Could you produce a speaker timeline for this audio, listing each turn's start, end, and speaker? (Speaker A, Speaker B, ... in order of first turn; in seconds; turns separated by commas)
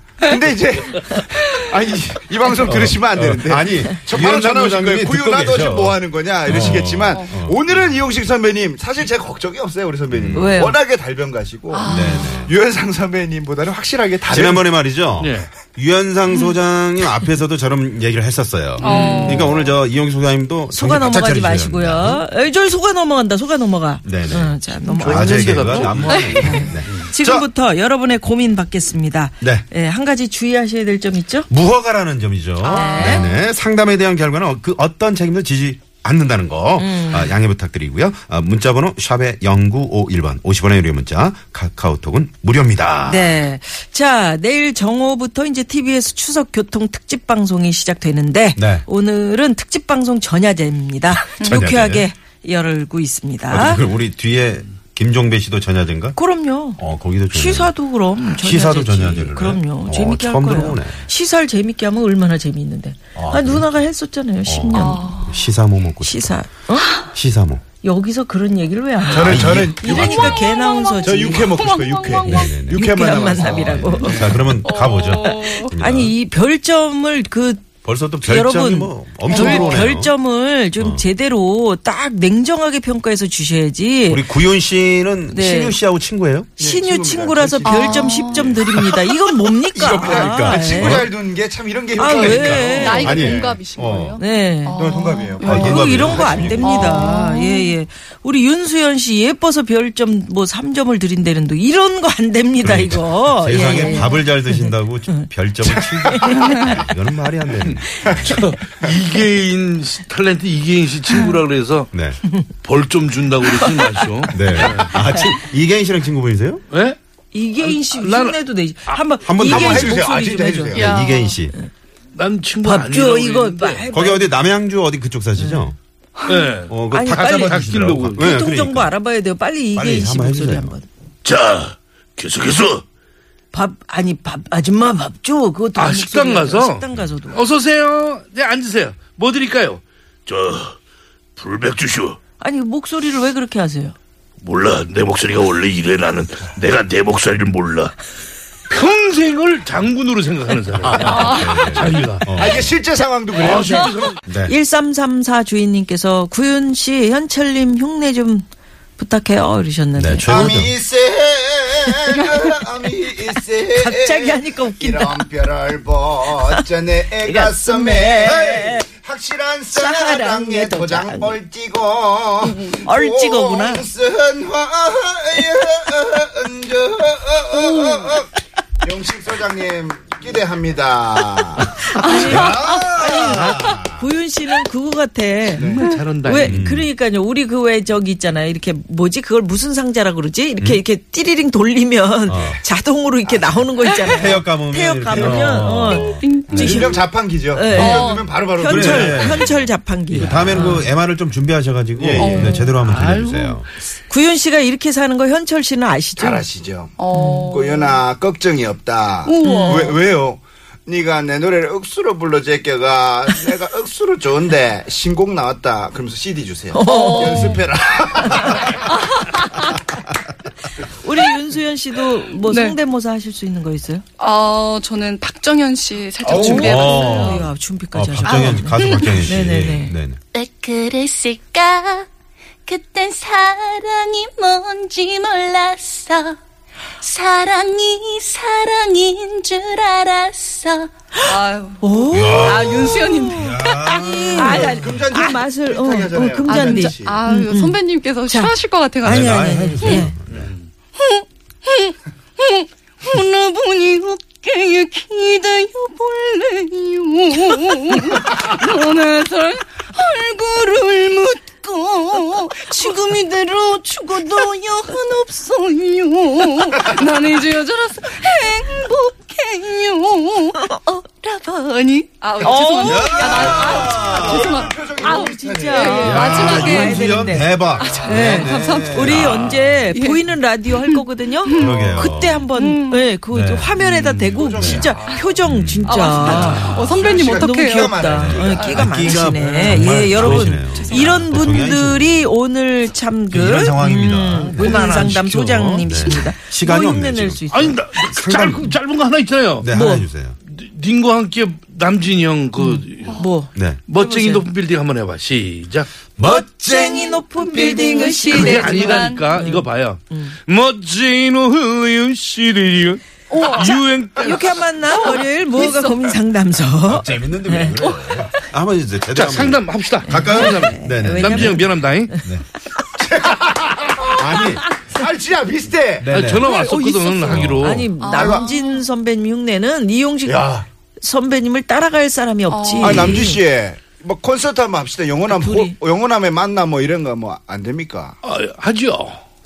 Speaker A: 0.2-14.7, Speaker B: 2.6-7.9, Speaker B: 10.1-10.6, Speaker C: 10.3-10.8, Speaker D: 11.7-12.5, Speaker B: 11.8-12.5, Speaker B: 14.3-22.2, Speaker E: 15.2-15.5, Speaker D: 18.8-19.6, Speaker E: 18.8-19.5, Speaker C: 20.7-31.5, Speaker B: 24.0-27.5, Speaker E: 24.9-27.0, Speaker D: 26.1-26.6, Speaker B: 31.5-43.4, Speaker C: 32.6-33.2, Speaker D: 32.7-33.2, Speaker C: 36.8-37.3, Speaker C: 43.0-53.8, Speaker B: 48.6-48.8, Speaker B: 51.3-52.1, Speaker D: 51.4-51.7, Speaker B: 53.5-56.2, Speaker C: 56.1-56.8, Speaker B: 56.8-61.0, Speaker C: 57.3-65.2, Speaker B: 63.1-63.7, Speaker B: 64.5-66.4, Speaker D: 64.7-65.4, Speaker C: 66.0-66.9, Speaker B: 67.0-67.6, Speaker C: 67.8-71.5, Speaker A: 69.1-70.4, Speaker B: 69.1-70.4, Speaker D: 69.8-72.7, Speaker A: 71.0-74.5, Speaker B: 72.2-76.1, Speaker C: 72.7-74.4, Speaker D: 74.0-75.7, Speaker C: 75.2-77.7, Speaker B: 77.8-80.1, Speaker C: 78.2-84.3, Speaker D: 79.3-79.7, Speaker B: 80.8-81.0, Speaker B: 84.1-86.5, Speaker C: 85.3-85.8, Speaker C: 86.6-91.1, Speaker A: 86.6-88.9, Speaker D: 87.6-88.5, Speaker A: 89.7-93.6, Speaker B: 89.8-91.1, Speaker C: 92.0-93.3, Speaker B: 92.0-94.2, Speaker D: 92.4-95.9, Speaker C: 94.2-94.8, Speaker A: 94.8-96.8, Speaker B: 95.4-97.2, Speaker C: 95.4-105.2, Speaker D: 96.6-97.7, Speaker B: 102.6-108.5, Speaker D: 103.7-104.1, Speaker C: 106.0-106.8, Speaker E: 107.7-111.9, Speaker B: 111.9-112.2, Speaker E: 112.6-114.9, Speaker C: 113.6-114.0, Speaker B: 114.3-116.6, Speaker E: 116.7-117.0, Speaker C: 117.3-120.9, Speaker E: 117.6-119.0, Speaker B: 119.2-120.1, Speaker A: 119.4-121.0, Speaker B: 120.7-121.5, Speaker D: 120.7-121.3, Speaker E: 122.1-123.8, Speaker C: 122.6-124.3, Speaker B: 123.9-125.8, Speaker C: 125.4-125.7, Speaker E: 126.3-128.3, Speaker B: 126.7-128.9, Speaker C: 126.9-127.6, Speaker C: 128.2-130.8, Speaker B: 129.7-130.8, Speaker E: 131.2-132.8, Speaker C: 133.5-137.4, Speaker E: 135.8-140.8, Speaker E: 141.3-142.2, Speaker C: 142.4-143.9, Speaker E: 144.4-147.9, Speaker E: 148.7-152.3, Speaker A: 150.9-151.4, Speaker D: 151.0-151.8, Speaker B: 151.1-152.7, Speaker A: 152.3-154.1, Speaker E: 153.3-154.2, Speaker D: 153.6-153.8, Speaker B: 154.3-154.5, Speaker C: 154.4-158.4, Speaker C: 159.0-160.7, Speaker B: 159.9-160.7, Speaker A: 160.2-178.3, Speaker C: 162.1-162.6, Speaker C: 163.7-165.3, Speaker C: 166.4-166.6, Speaker C: 167.2-168.8, Speaker B: 168.2-168.7, Speaker C: 169.7-171.3, Speaker C: 172.7-173.8, Speaker D: 177.6-178.1, Speaker A: 178.8-184.0, Speaker C: 181.8-200.8, Speaker D: 182.0-183.0, Speaker B: 182.2-183.8, Speaker A: 185.5-185.9, Speaker E: 185.6-186.6, Speaker B: 186.4-186.9, Speaker B: 192.3-192.6, Speaker A: 193.3-193.6, Speaker B: 194.1-197.0, Speaker D: 196.0-196.9, Speaker A: 196.5-199.5, Speaker B: 197.7-198.0, Speaker D: 197.7-198.3, Speaker B: 198.6-199.6, Speaker B: 200.1-203.7, Speaker E: 200.2-200.5, Speaker A: 202.0-202.6, Speaker D: 202.2-202.7, Speaker E: 202.6-203.6, Speaker C: 204.1-206.4, Speaker A: 206.2-207.0, Speaker D: 207.0-208.0, Speaker C: 207.1-207.5, Speaker A: 207.5-218.9, Speaker D: 209.2-210.0, Speaker C: 209.4-209.9, Speaker C: 216.7-217.6, Speaker D: 216.8-217.7, Speaker D: 218.8-219.8, Speaker C: 220.9-224.0, Speaker D: 222.4-222.8, Speaker D: 224.2-227.4, Speaker A: 226.2-226.8, Speaker B: 226.3-230.2, Speaker C: 226.3-229.9, Speaker D: 228.2-229.3, Speaker F: 230.3-232.1, Speaker F: 232.7-236.4, Speaker F: 237.0-240.9, Speaker D: 241.2-244.9, Speaker C: 241.2-250.1, Speaker B: 242.1-244.9, Speaker A: 244.4-247.2, Speaker D: 246.4-250.1, Speaker B: 249.0-250.5, Speaker E: 250.3-250.7, Speaker D: 251.0-277.2, Speaker C: 272.4-273.6, Speaker A: 272.4-276.8, Speaker B: 272.8-274.7, Speaker C: 275.0-297.8, Speaker B: 276.0-279.8, Speaker D: 277.8-283.2, Speaker B: 281.5-282.4, Speaker B: 283.3-284.9, Speaker A: 284.2-285.3, Speaker B: 285.4-285.9, Speaker D: 285.8-288.9, Speaker A: 286.1-289.6, Speaker E: 286.4-286.7, Speaker B: 288.0-292.3, Speaker E: 290.0-290.6, Speaker D: 290.8-291.5, Speaker B: 293.3-295.1, Speaker E: 294.6-295.9, Speaker B: 295.8-297.4, Speaker E: 297.5-299.7, Speaker B: 298.1-298.7, Speaker B: 299.6-300.4, Speaker C: 299.7-300.1, Speaker E: 300.5-303.2, Speaker C: 302.6-304.5, Speaker B: 303.5-303.8, Speaker E: 303.9-305.9, Speaker B: 306.2-307.2, Speaker C: 306.2-310.3, Speaker D: 307.4-309.3, Speaker E: 308.2-314.6, Speaker D: 313.3-313.8, Speaker C: 313.4-317.9, Speaker D: 315.0-316.0, Speaker B: 316.8-321.7, Speaker E: 319.1-322.1, Speaker C: 320.1-322.3, Speaker A: 323.0-326.2, Speaker B: 324.2-324.6, Speaker B: 326.0-326.5, Speaker E: 326.1-327.9, Speaker D: 326.4-328.8, Speaker B: 327.3-327.9, Speaker C: 327.6-333.4, Speaker A: 328.1-328.4, Speaker A: 330.2-330.6, Speaker D: 332.5-333.4, Speaker A: 332.8-338.2, Speaker C: 335.3-335.8, Speaker E: 338.2-339.2